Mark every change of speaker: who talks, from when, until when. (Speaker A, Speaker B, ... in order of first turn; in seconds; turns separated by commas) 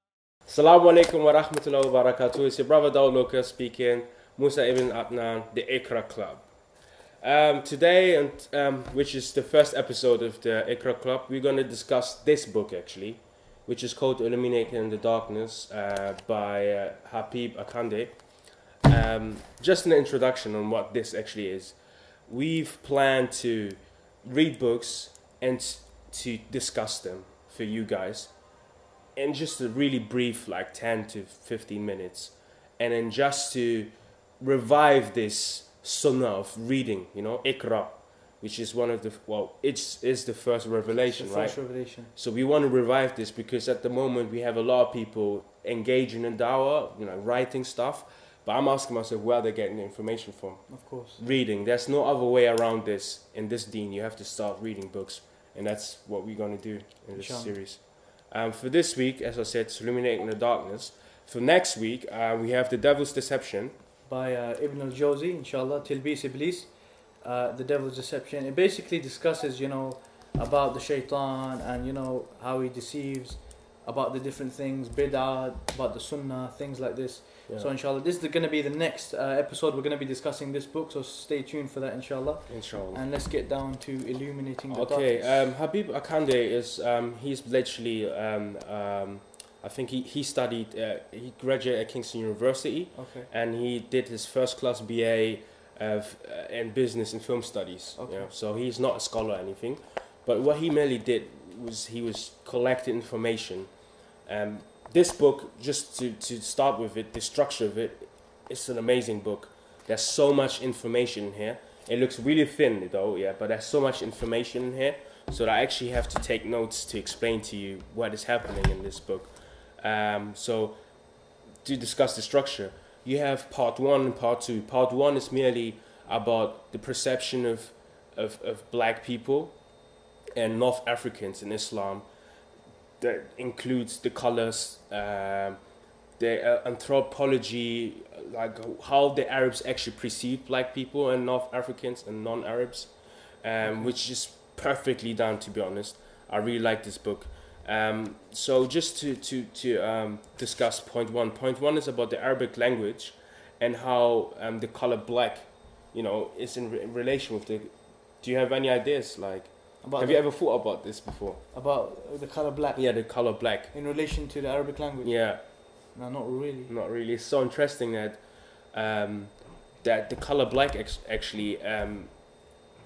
Speaker A: 0.5-6.5, Speaker A: 7.2-18.2, Speaker A: 18.9-28.3, Speaker A: 29.2-63.8, Speaker B: 41.1-42.1, Speaker B: 50.7-51.4, Speaker B: 57.1-57.6, Speaker B: 64.0-85.4, Speaker A: 82.5-83.0, Speaker A: 84.7-103.7, Speaker B: 92.9-93.3, Speaker B: 98.0-98.3, Speaker A: 104.2-120.8, Speaker A: 121.6-129.6, Speaker A: 130.4-132.1, Speaker A: 133.0-135.6, Speaker A: 136.2-161.4, Speaker B: 143.6-143.9, Speaker B: 159.8-160.3, Speaker B: 161.5-166.7, Speaker A: 162.8-163.7, Speaker A: 165.0-165.4, Speaker A: 166.7-168.2, Speaker A: 168.7-172.4